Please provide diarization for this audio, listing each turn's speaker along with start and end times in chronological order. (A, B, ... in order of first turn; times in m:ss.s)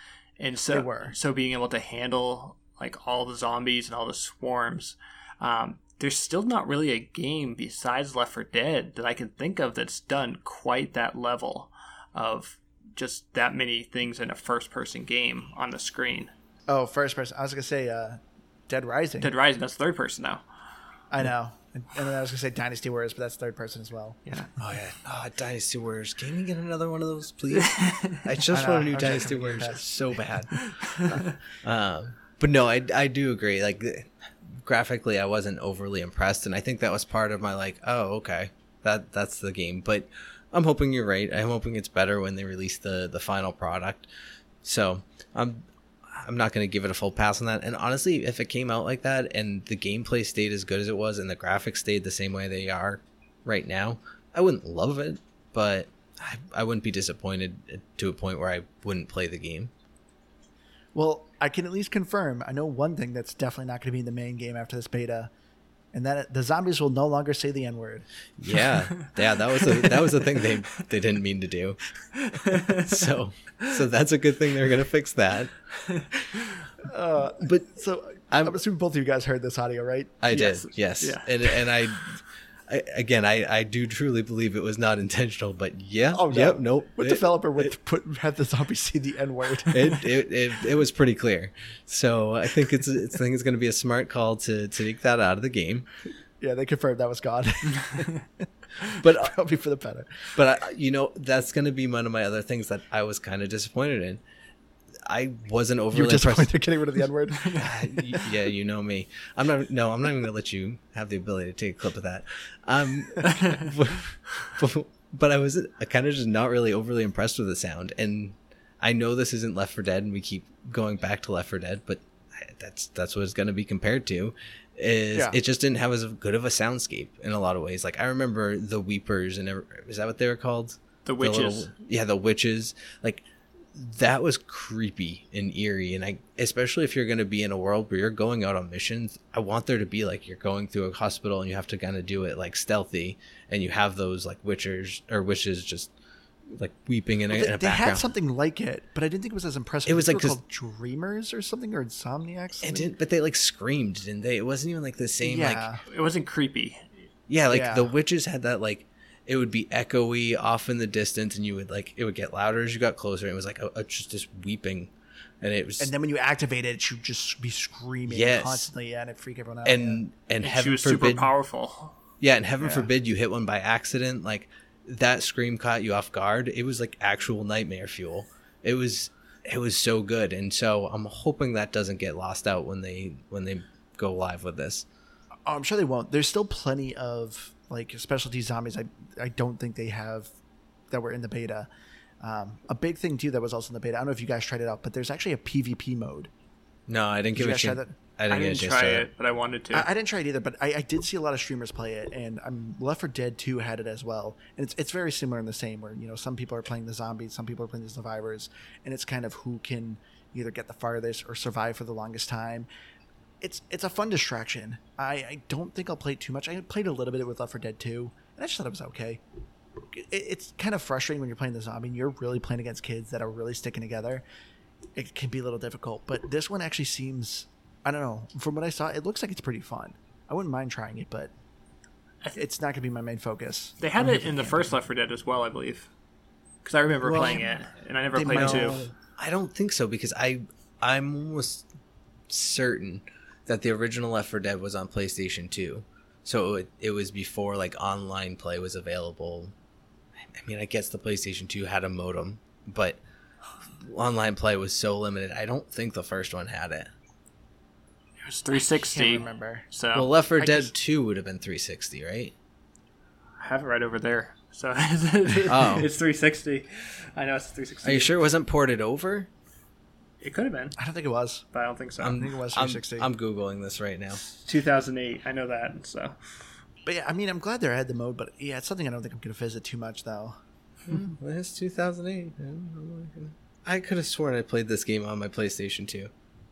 0:00.4-0:16.3 A
0:00.7-0:01.1 B
0:16.7-0:19.3 B
0:19.2-0:20.4 A
0:21.1-0:24.2 B
0:24.6-0:44.1 C
0:27.6-0:28.2 A
0:28.5-0:29.9 B
0:30.6-0:31.3 A
0:44.6-0:45.6 C
0:46.2-0:59.7 C
1:00.9-1:05.3 B
1:05.9-1:08.1 B
1:08.4-1:11.8 C
1:08.8-1:10.5 A
1:12.3-1:13.1 A
1:12.7-1:15.5 C
1:15.9-1:16.5 A
1:16.8-1:20.3 B
1:18.3-1:18.6 C
1:20.2-1:27.7 C
1:20.3-1:21.9 A
1:26.1-1:29.8 B
1:29.7-1:35.9 C
1:36.4-1:38.2 B
1:39.0-1:39.4 C
1:39.2-1:40.1 B
1:40.4-1:44.2 C
1:45.1-1:46.5 C
1:45.9-1:48.2 B
1:47.6-2:25.9 C
2:05.1-2:05.4 B
2:11.0-2:11.7 A
2:26.5-2:28.0 C
2:27.3-2:32.9 B
2:29.8-2:30.4 C
2:32.6-2:35.7 C
2:35.2-2:35.8 B
2:35.8-2:36.9 A
2:37.3-2:45.9 C
2:37.5-2:37.9 B
2:45.8-2:50.0 B
2:48.1-2:48.7 C
2:49.6-2:51.3 C
2:50.4-2:52.0 A
2:52.2-3:04.8 C
2:52.6-2:52.9 B
3:05.5-3:10.3 B
3:10.9-3:11.7 B
3:12.2-3:16.3 B
3:16.9-3:19.1 C
3:17.3-3:18.0 B
3:18.3-3:19.9 A
3:19.7-3:32.7 B
3:33.4-3:39.2 B
3:39.9-3:44.2 B
3:45.0-3:51.3 B
3:52.3-3:54.7 B
3:53.8-3:55.9 A
3:56.6-3:58.8 A
3:57.0-3:57.4 C
3:57.1-3:57.4 B
3:58.1-3:58.9 B
3:58.3-4:01.6 C
4:02.3-4:09.5 C
4:10.3-4:13.0 C
4:13.9-4:16.9 C
4:18.2-4:20.1 A
4:18.5-4:19.7 B
4:19.9-4:22.3 C
4:20.4-4:20.7 B
4:23.4-4:28.2 A
4:25.5-4:25.9 C
4:27.8-4:29.3 C
4:30.2-4:30.8 A
4:30.8-4:31.4 B
4:31.5-4:32.2 A
4:32.0-4:34.2 C
4:32.0-4:33.1 B
4:34.4-4:36.2 A
4:36.8-4:40.4 B
4:40.9-4:46.1 C